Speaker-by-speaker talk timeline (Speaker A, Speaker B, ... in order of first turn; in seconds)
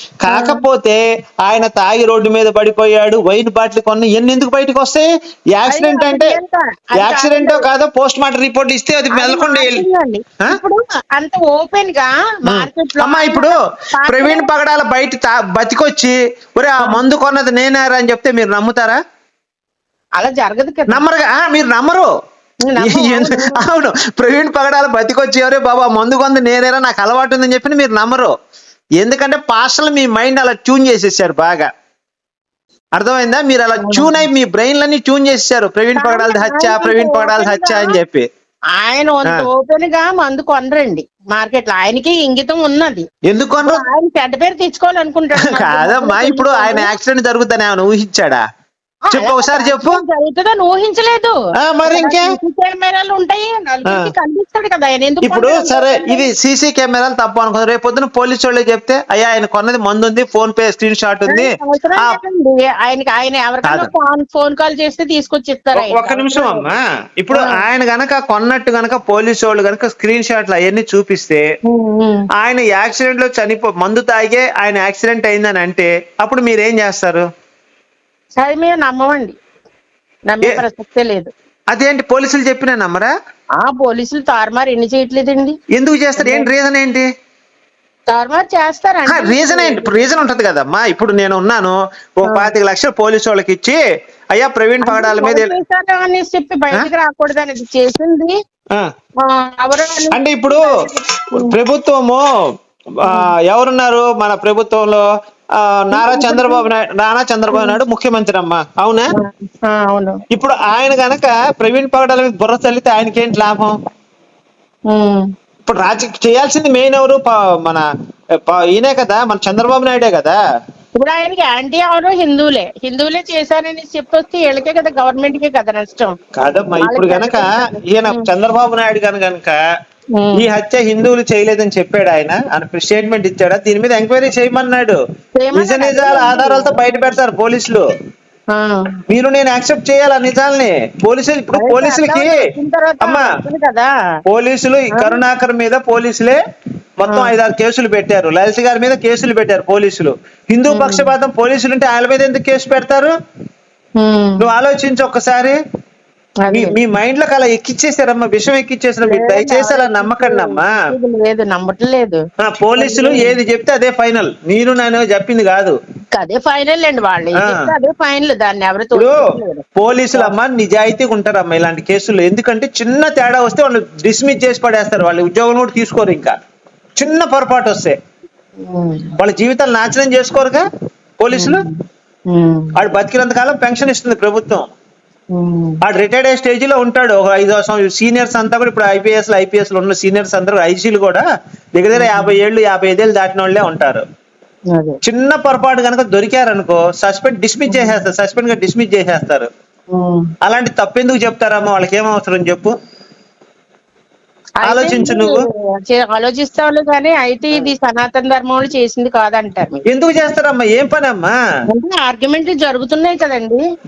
Speaker A: 0.2-6.4, 7.0-9.8, 12.4-13.5, 14.1-19.0, 20.9-22.1, 22.8-28.3, 29.0-31.7, 33.0-38.2, 43.3-43.8, 45.4-48.4, 49.1-50.0, 51.6-52.3, 55.2-62.2, 65.7-71.4, 72.4-77.2, 81.7-83.1, 85.7-87.1, 89.1-93.8, 94.3-95.5, 100.1-102.2, 103.0-105.0, 105.5-109.1, 110.3-113.7, 115.7-117.8, 118.4-120.4, 126.3-129.6, 130.3-135.0, 135.5-137.8, 139.1-142.4, 143.0-143.3, 144.3-146.4, 147.0-153.1, 154.4-155.6, 156.5-160.7, 162.4-165.8, 167.4-167.7, 168.9-169.2, 169.8-176.4, 177.0-178.0, 179.2-180.6, 181.2-181.6, 182.8-184.7, 185.8-194.0, 195.0-199.5, 200.4-202.7, 204.6-205.4, 209.9-211.3
Speaker B: 0.3-0.6, 5.7-7.7, 9.1-14.5, 20.2-21.0, 22.6-23.6, 33.8-34.2, 36.0-38.0, 38.7-43.1, 43.6-46.9, 49.1-56.3, 61.3-66.7, 67.3-67.6, 71.7-72.3, 78.4-79.4, 80.3-81.3, 83.6-85.6, 86.2-86.5, 88.1-90.0, 92.2-92.5, 94.8-98.3, 99.2-101.5, 103.0-103.3, 105.9-106.6, 107.5-107.8, 109.1-110.2, 114.9-115.3, 120.9-126.1, 126.8-128.3, 130.2-130.5, 135.4-137.1, 138.5-139.0, 141.5-143.9, 144.9-145.2, 147.1-147.3, 150.7-151.1, 154.0-154.4, 156.4-156.8, 159.0-162.2, 162.8-163.3, 166.1-170.3, 178.6-179.2, 181.3-182.7, 185.3-185.8, 191.9-192.3, 194.7-195.0, 197.7-198.0, 199.9-200.3, 204.6-209.8, 211.7-213.6